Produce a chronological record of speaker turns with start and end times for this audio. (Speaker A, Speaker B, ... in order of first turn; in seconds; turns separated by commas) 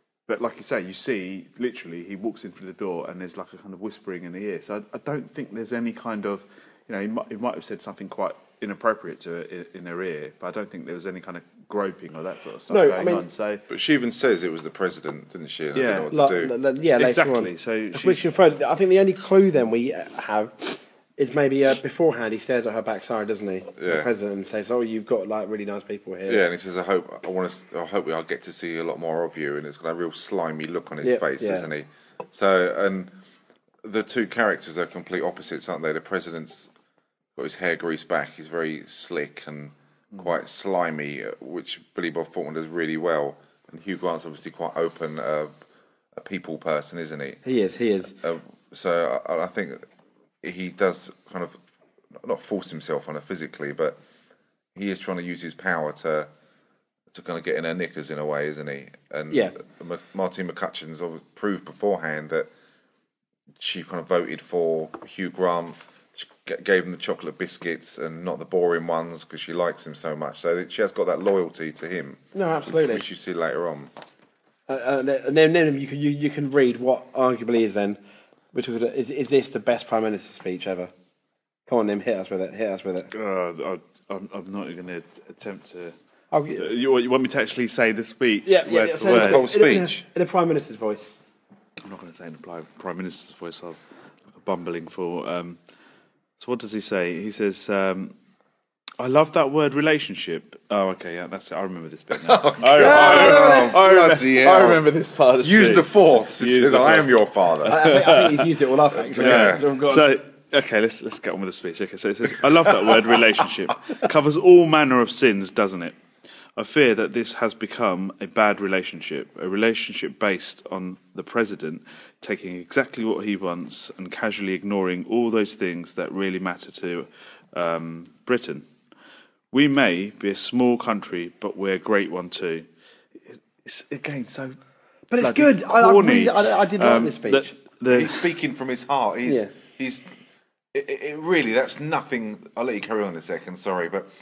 Speaker A: 0.3-13.6, Speaker B: 12.7-13.2, Speaker C: 13.7-16.5, Speaker A: 15.7-16.1, Speaker B: 16.1-26.4, Speaker A: 17.0-18.3, Speaker C: 23.8-24.1, Speaker C: 26.3-33.1, Speaker B: 31.0-31.7, Speaker C: 33.8-36.7, Speaker C: 37.4-45.5, Speaker C: 46.2-47.4, Speaker B: 47.4-48.1, Speaker C: 48.2-49.8, Speaker C: 50.4-51.6, Speaker C: 52.2-54.0, Speaker C: 54.7-56.3, Speaker C: 57.1-62.5, Speaker C: 63.6-73.9, Speaker B: 72.3-73.0, Speaker B: 74.7-78.0, Speaker B: 78.5-80.9, Speaker B: 81.7-83.1, Speaker A: 83.1-85.9, Speaker B: 86.3-86.7, Speaker A: 86.5-89.5, Speaker B: 88.4-91.2, Speaker C: 89.0-90.0, Speaker A: 91.8-93.8, Speaker A: 94.3-95.6, Speaker A: 96.4-98.1, Speaker A: 99.0-108.5, Speaker C: 102.2-104.8, Speaker B: 102.7-103.9, Speaker C: 105.4-108.0, Speaker B: 107.7-110.1, Speaker C: 109.1-109.7, Speaker A: 109.1-116.0, Speaker A: 116.5-128.7, Speaker A: 129.5-134.6, Speaker B: 135.1-137.5, Speaker A: 135.2-138.2, Speaker C: 137.9-140.1, Speaker C: 140.7-144.1